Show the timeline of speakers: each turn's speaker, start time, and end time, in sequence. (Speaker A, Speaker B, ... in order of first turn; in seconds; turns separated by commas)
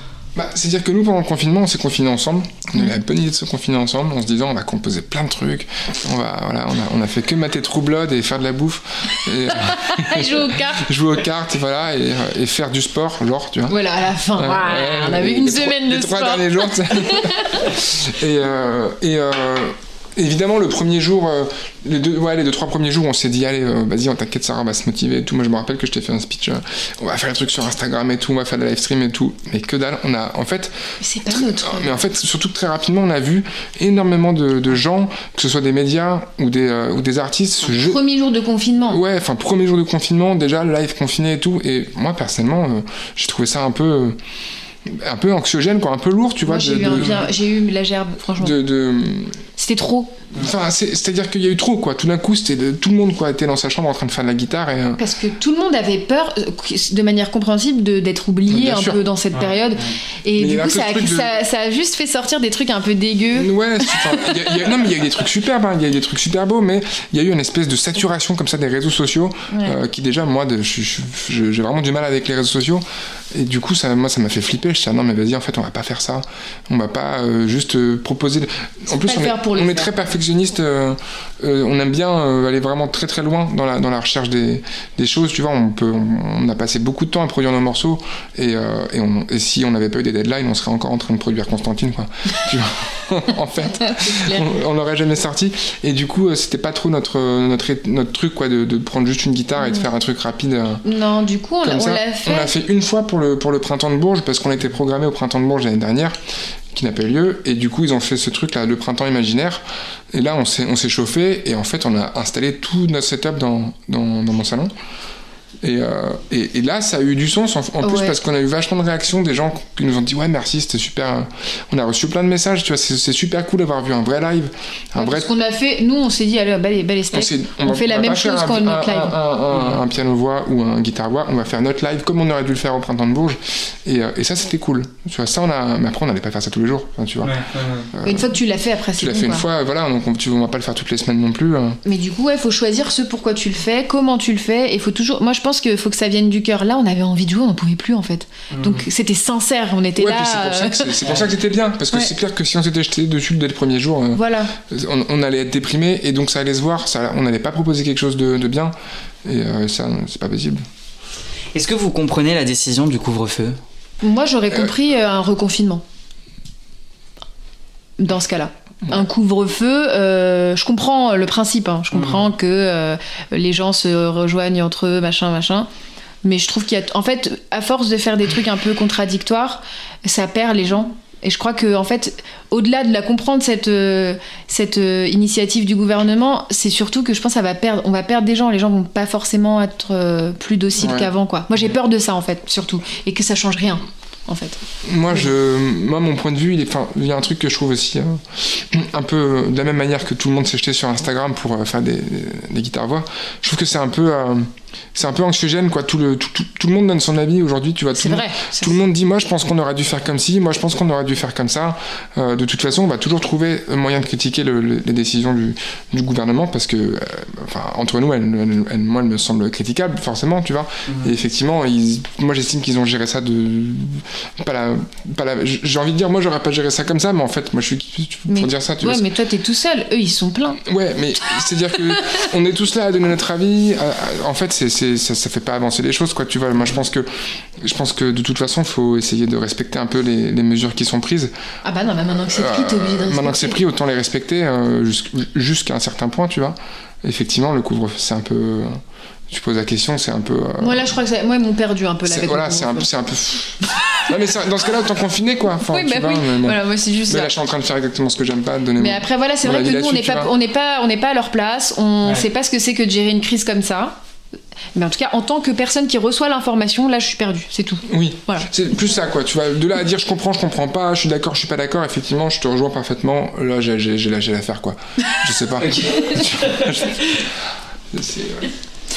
Speaker A: 0.3-13.8, Speaker B: 9.5-10.8, Speaker B: 13.7-17.7, Speaker A: 14.3-38.0, Speaker B: 31.0-32.0, Speaker B: 37.6-39.0, Speaker A: 38.9-44.2, Speaker A: 44.8-47.3, Speaker B: 46.4-48.6, Speaker A: 48.4-49.4, Speaker B: 49.6-50.2, Speaker A: 50.4-55.0, Speaker B: 55.0-64.6, Speaker A: 58.5-59.0, Speaker C: 59.3-59.9, Speaker A: 60.4-61.3, Speaker A: 63.3-100.8, Speaker B: 69.5-69.8, Speaker B: 78.9-79.9, Speaker B: 93.8-94.5, Speaker B: 100.8-102.5, Speaker A: 101.6-106.2, Speaker A: 106.7-114.7, Speaker A: 115.6-125.3, Speaker B: 117.8-118.1, Speaker B: 125.0-129.2, Speaker A: 127.1-137.3, Speaker C: 129.5-129.8, Speaker C: 137.2-137.9, Speaker A: 137.9-138.3, Speaker B: 138.0-139.4, Speaker A: 139.0-141.8, Speaker B: 141.8-151.0, Speaker C: 148.5-148.8, Speaker A: 150.0-158.7, Speaker C: 151.0-151.3, Speaker B: 154.1-154.5, Speaker A: 159.2-160.6, Speaker C: 161.5-163.6, Speaker B: 164.0-165.8, Speaker B: 168.0-175.7, Speaker C: 172.0-172.2, Speaker B: 176.2-194.6, Speaker A: 190.8-191.1, Speaker A: 194.8-229.1, Speaker B: 208.0-208.8, Speaker B: 228.3-230.6, Speaker A: 230.6-241.3, Speaker B: 232.0-232.2, Speaker B: 241.6-243.6, Speaker A: 242.2-250.9, Speaker B: 250.6-252.9, Speaker A: 252.0-260.3, Speaker B: 253.7-254.1, Speaker B: 255.6-257.4, Speaker B: 258.8-263.9, Speaker B: 264.7-268.5, Speaker A: 267.9-277.4, Speaker C: 275.6-277.1, Speaker A: 277.9-278.5